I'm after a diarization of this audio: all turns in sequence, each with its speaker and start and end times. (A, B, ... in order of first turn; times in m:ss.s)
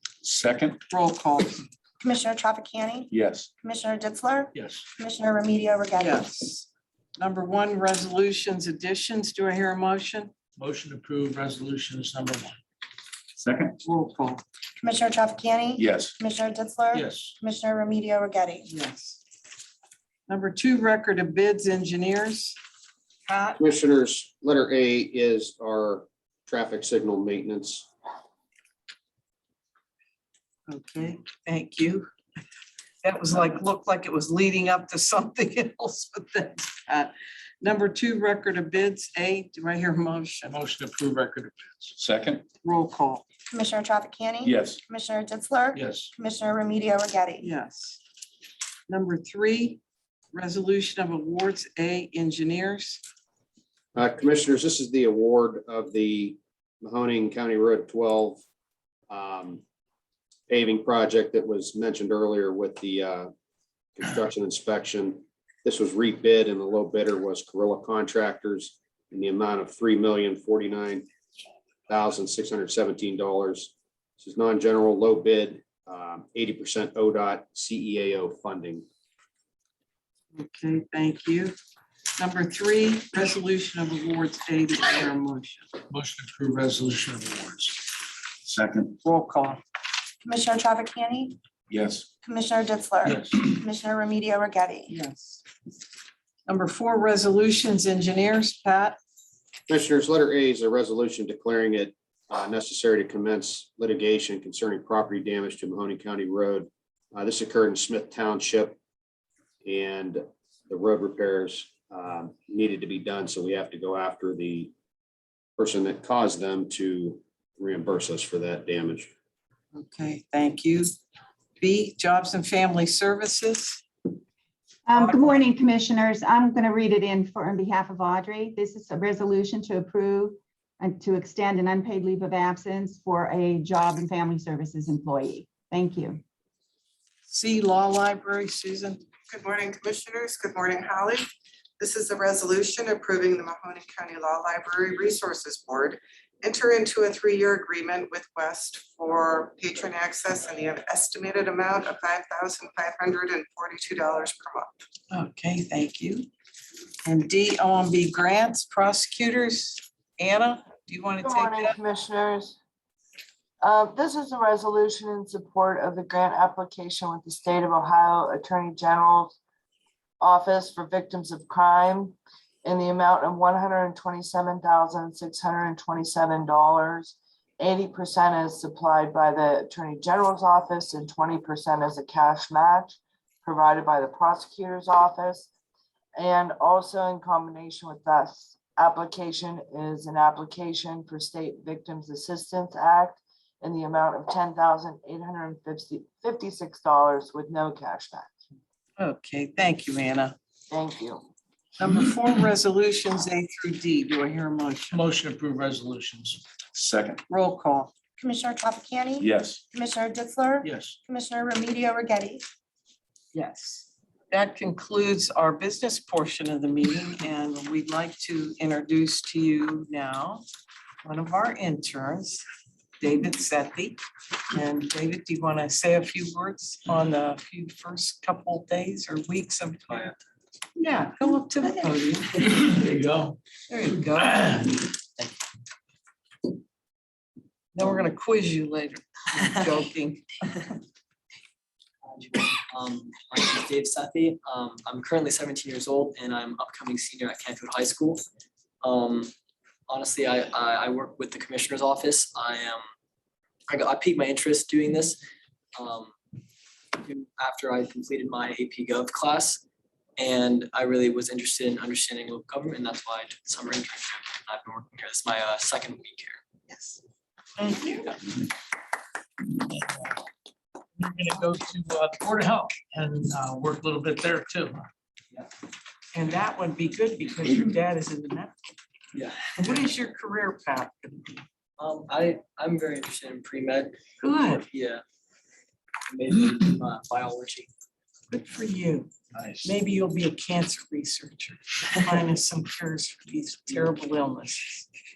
0:00.2-0:00.8 A
0:00.9-0:01.6 B
0:02.0-0:03.1 C
0:03.1-0:03.5 A
0:03.6-0:06.2 C
0:04.5-0:04.8 D
0:06.0-0:10.3 B
0:10.6-0:12.6 D
0:13.4-0:13.7 A
0:13.8-0:14.4 B
0:14.8-0:18.7 C
0:15.8-0:16.1 A
0:16.9-0:17.3 D
0:18.7-0:19.2 B
0:20.3-0:22.6 B
0:23.2-0:23.6 B
0:23.6-0:27.9 E
0:30.7-0:32.1 B
0:33.0-0:40.6 B
0:40.5-0:42.0 D
0:42.0-0:42.4 A
0:42.6-0:43.2 B
0:43.5-0:47.5 C
0:44.4-0:44.8 A
0:45.7-0:46.1 D
0:47.4-0:48.0 B
0:48.9-0:49.8 B
0:50.3-0:53.0 B
0:53.9-0:58.4 E
0:59.1-0:59.6 E
1:00.5-1:03.3 E
1:04.0-1:11.0 E
1:11.9-1:18.8 E
1:20.3-1:21.5 B
1:22.2-1:25.7 B
1:25.9-1:27.9 D
1:28.4-1:28.9 A
1:29.0-1:29.6 B
1:30.2-1:31.4 C
1:31.7-1:32.1 A
1:32.2-1:35.0 C
1:33.0-1:33.4 D
1:34.9-1:35.4 B
1:36.5-1:39.0 B
1:39.7-1:48.8 E
1:49.6-1:54.7 E
1:55.6-1:59.1 E
1:59.7-2:01.0 B
2:01.6-2:03.8 B
2:04.8-2:16.2 F
2:17.3-2:19.0 B
2:19.3-2:21.3 G
2:21.8-2:34.8 G
2:35.1-2:36.3 B
2:37.0-2:41.7 B
2:41.2-2:42.6 H
2:43.6-2:49.4 H
2:50.2-3:05.5 H
3:06.2-3:18.3 H
3:19.0-3:20.4 B
3:20.7-3:21.3 H
3:21.8-3:25.0 B
3:24.9-3:26.4 D
3:26.7-3:27.2 A
3:27.3-3:27.9 B
3:28.2-3:32.4 C
3:29.2-3:29.6 A
3:30.6-3:31.0 D
3:33.3-3:40.4 B
3:41.0-3:42.4 B
3:43.0-3:44.0 B
3:44.5-3:50.1 B
3:49.9-3:50.1 I
3:50.8-3:52.4 B
3:52.5-3:53.4 D
3:53.7-3:54.4 B
3:54.2-3:54.8 D
3:57.7-4:00.7 B
4:02.0-4:08.2 I
4:08.8-4:09.3 I
4:09.9-4:12.8 I
4:13.7-4:15.2 I
4:15.8-4:16.1 I
4:17.0-4:19.6 I
4:20.2-4:26.4 I
4:26.7-4:27.0 C
4:27.6-4:28.2 B
4:29.8-4:30.2 D
4:31.0-4:34.9 D
4:36.1-4:38.5 B
4:39.1-4:39.8 I
4:39.6-4:41.3 B
4:41.8-4:44.0 I
4:44.2-4:44.6 B
4:44.5-4:45.0 I
4:46.1-4:47.7 I
4:48.3-4:49.1 B
4:49.3-4:49.7 D
4:49.6-4:54.9 B